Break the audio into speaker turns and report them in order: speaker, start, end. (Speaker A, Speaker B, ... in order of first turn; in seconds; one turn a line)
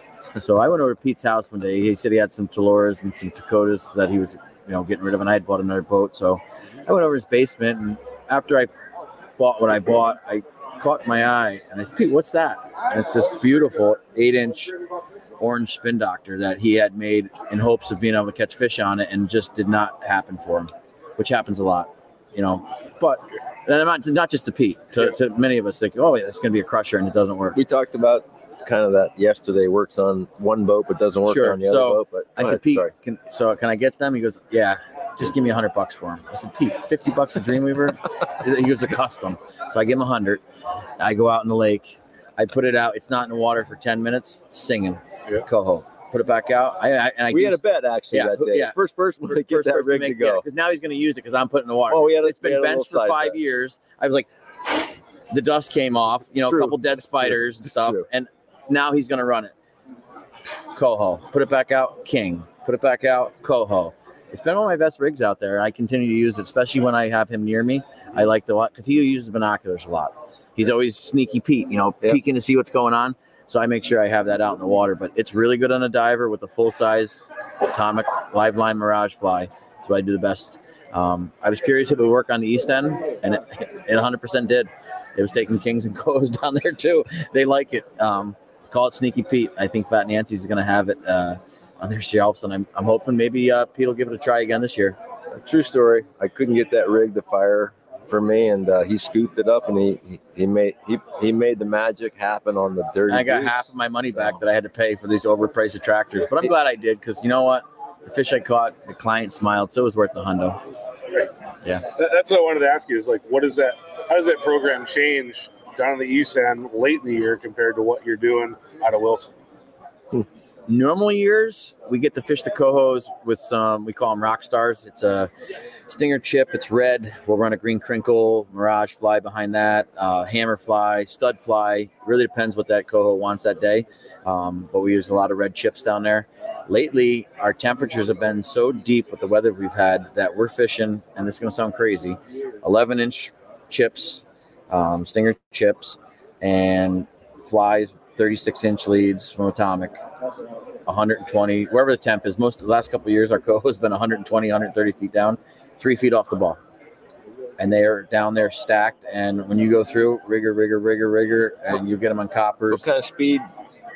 Speaker A: 0.3-8.7
Speaker A: 9.4-14.8
Speaker A: 15.4-27.6
Speaker B: 27.5-32.9
Speaker A: 31.2-40.4
Speaker A: 41.0-59.5
Speaker B: 47.3-50.5
Speaker B: 51.9-53.4
Speaker B: 56.4-58.1
Speaker A: 60.5-95.0
Speaker B: 95.3-104.4
Speaker A: 103.1-110.6
Speaker C: 111.9-119.3
Speaker A: 120.7-125.3
Speaker A: 125.9-149.9
Speaker A: 150.8-156.6
Speaker A: 157.6-162.9
Speaker B: 162.7-163.4